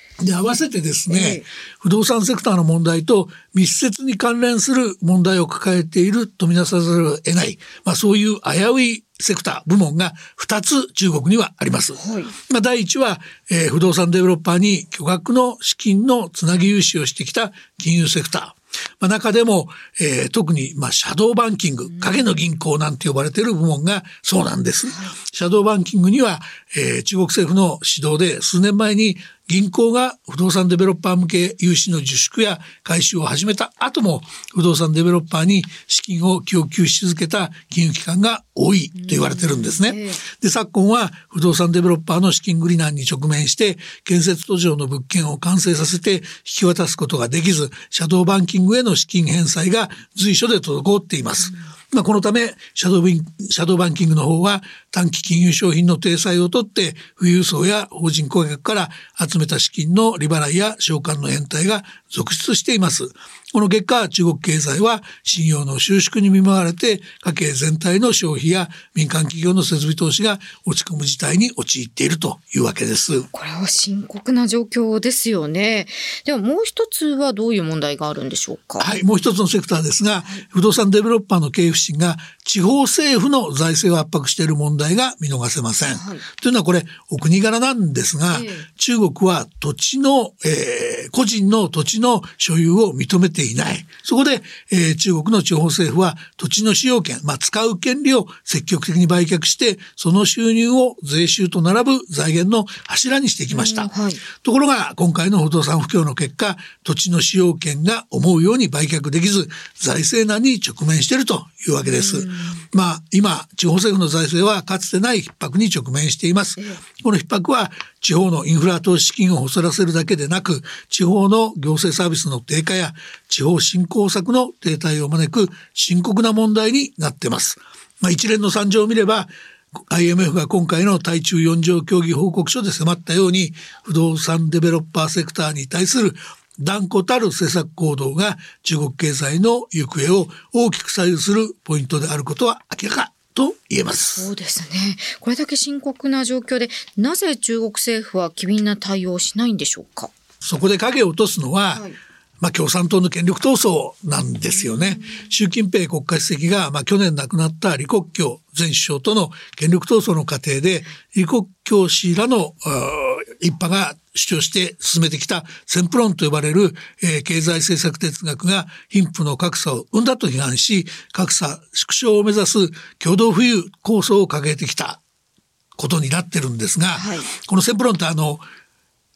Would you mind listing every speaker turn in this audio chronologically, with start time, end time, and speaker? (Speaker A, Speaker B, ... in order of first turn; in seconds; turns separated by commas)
Speaker A: 0.2-73.3, Speaker B: 1.1-1.5, Speaker B: 11.9-12.3, Speaker B: 21.9-22.2, Speaker B: 24.9-25.1, Speaker B: 38.9-40.2, Speaker B: 73.3-78.9, Speaker A: 78.8-144.3, Speaker B: 85.9-86.2, Speaker B: 88.3-88.7, Speaker B: 103.5-104.2, Speaker B: 111.8-112.6, Speaker B: 144.1-150.1, Speaker A: 150.4-151.8, Speaker B: 151.7-152.0, Speaker A: 152.4-175.0, Speaker B: 154.5-155.2, Speaker A: 175.8-178.4, Speaker B: 176.9-177.3